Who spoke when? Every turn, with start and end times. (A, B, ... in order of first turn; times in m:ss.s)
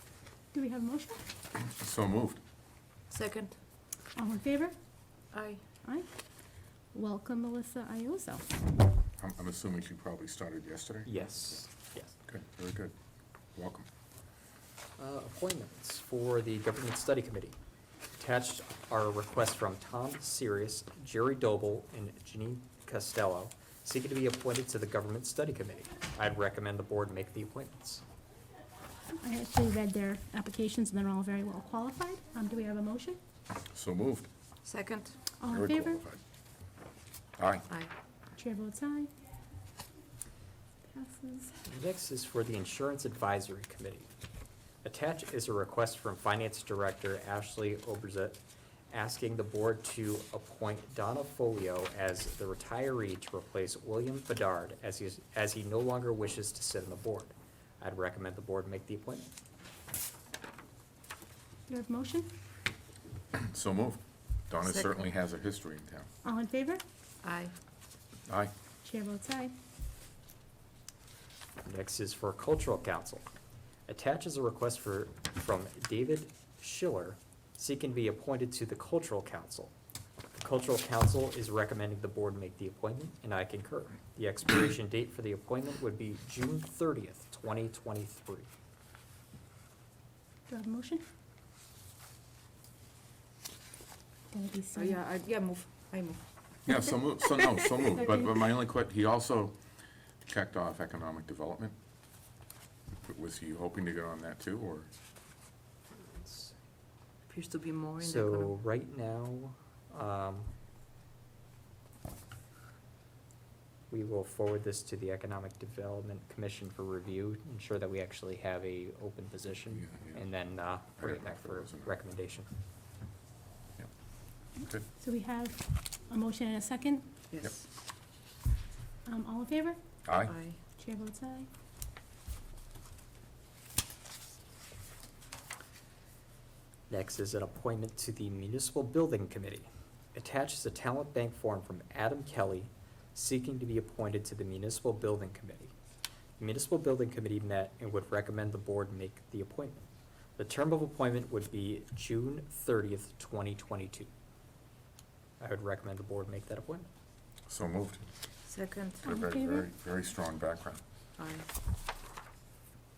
0:00.5-0:01.2 A
0:01.6-0:02.4 B
0:03.1-0:03.5 C
0:04.2-0:04.7 A
0:05.3-0:05.6 C
0:06.9-0:08.6 A
0:09.2-0:11.5 B
0:11.0-0:12.1 D
0:12.2-0:12.9 B
0:13.5-0:13.9 B
0:15.0-0:17.6 D
0:18.2-0:28.0 D
0:29.1-0:33.2 A
0:33.5-0:34.3 B
0:34.6-0:35.2 C
0:35.4-0:36.0 A
0:35.5-0:36.2 B
0:37.4-0:37.7 B
0:38.4-0:39.1 A
0:40.8-0:41.6 A
0:41.6-0:44.1 D
0:44.8-0:59.3 D
1:01.7-1:02.3 A
1:03.3-1:06.1 B
1:04.6-1:04.9 C
1:06.2-1:06.8 A
1:07.2-1:07.5 C
1:08.3-1:08.5 B
1:08.8-1:09.5 A
1:11.6-1:13.2 D
1:13.9-1:19.7 D
1:20.4-1:28.5 D
1:30.5-1:31.0 A
1:34.3-1:35.0 A
1:34.7-1:36.2 C
1:36.7-1:39.6 B
1:37.9-1:38.4 A
1:40.2-1:41.8 B
1:43.0-1:44.9 B
1:46.0-1:46.5 D
1:47.3-1:48.5 C
1:48.0-1:50.5 D
1:53.9-2:02.5 D
1:59.8-2:00.2 B
2:01.0-2:02.0 B
2:04.6-2:04.8 B
2:05.0-2:07.2 A
2:07.3-2:07.6 C
2:09.1-2:09.8 A
2:10.0-2:10.3 B
2:10.2-2:10.6 C
2:10.7-2:11.5 A
2:16.9-2:25.7 D
2:26.4-2:29.8 D
2:30.4-2:34.1 D
2:35.4-2:36.9 D
2:37.5-2:38.0 B
2:38.5-2:39.1 C
2:39.0-2:39.7 A
2:39.0-2:40.8 B
2:41.2-2:41.4 C